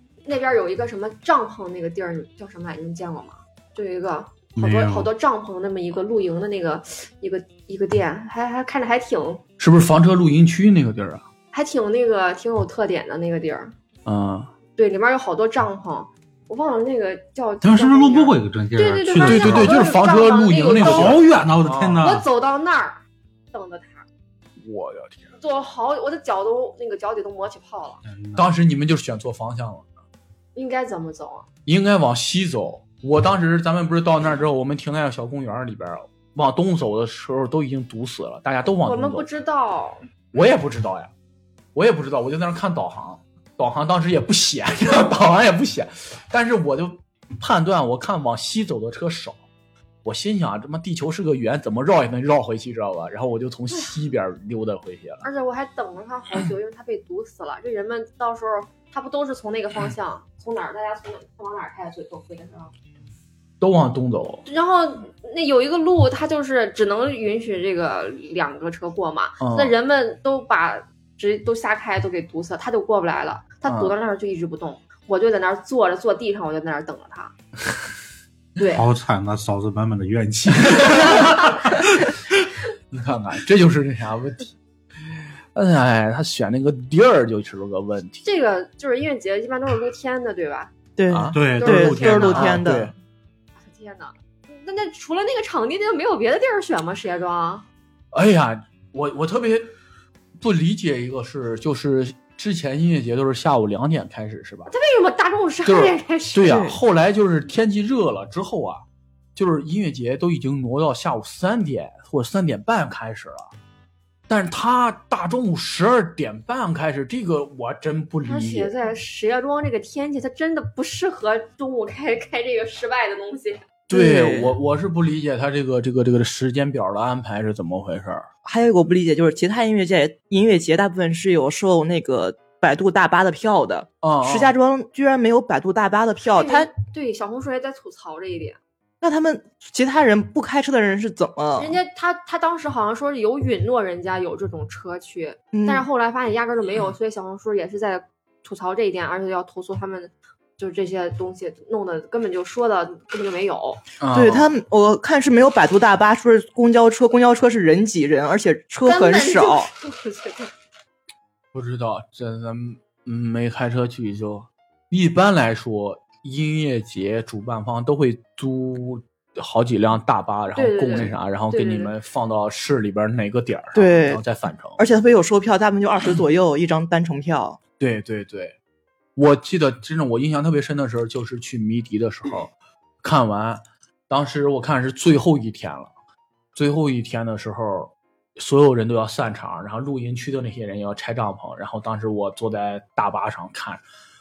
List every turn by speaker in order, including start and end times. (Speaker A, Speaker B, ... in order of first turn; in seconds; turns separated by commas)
Speaker A: 0.2-9.4, Speaker B: 4.6-5.1, Speaker C: 9.6-11.2, Speaker A: 11.5-13.7, Speaker C: 14.1-14.5, Speaker A: 14.7-21.3, Speaker B: 17.6-19.8, Speaker C: 19.2-22.0, Speaker B: 20.8-22.2, Speaker A: 22.0-23.0, Speaker A: 23.5-24.0, Speaker C: 24.6-25.3, Speaker A: 25.4-28.0, Speaker B: 28.0-28.5, Speaker C: 28.4-29.9, Speaker A: 30.5-31.4, Speaker C: 31.6-39.3, Speaker A: 38.8-40.0, Speaker C: 40.3-41.1, Speaker C: 41.7-49.4, Speaker C: 50.0-55.2, Speaker A: 55.2-62.7, Speaker C: 63.6-64.4, Speaker A: 64.5-77.3, Speaker C: 69.4-69.7, Speaker C: 73.7-73.9, Speaker A: 78.6-78.8, Speaker B: 78.7-82.1, Speaker C: 80.6-81.8, Speaker C: 82.9-84.5, Speaker C: 85.5-88.2, Speaker A: 88.2-90.7, Speaker D: 91.0-92.9, Speaker C: 91.1-92.9, Speaker B: 91.3-92.4, Speaker A: 91.6-92.5, Speaker A: 93.6-97.6, Speaker C: 98.1-99.7, Speaker C: 100.4-104.7, Speaker A: 104.7-106.6, Speaker C: 105.7-108.8, Speaker D: 106.4-106.8, Speaker C: 109.3-113.5, Speaker C: 114.3-118.7, Speaker A: 118.2-123.6, Speaker C: 123.9-128.3, Speaker D: 123.9-124.6, Speaker D: 128.4-136.7, Speaker C: 134.0-134.5, Speaker A: 136.3-138.6, Speaker D: 139.0-141.8, Speaker A: 141.6-153.8, Speaker D: 145.5-145.8, Speaker C: 154.0-154.5, Speaker D: 154.1-159.7, Speaker A: 158.8-160.5, Speaker C: 161.5-174.8, Speaker A: 170.5-171.9, Speaker D: 173.7-174.2, Speaker D: 174.8-177.6, Speaker C: 177.8-178.6, Speaker C: 179.2-185.9, Speaker C: 186.5-193.8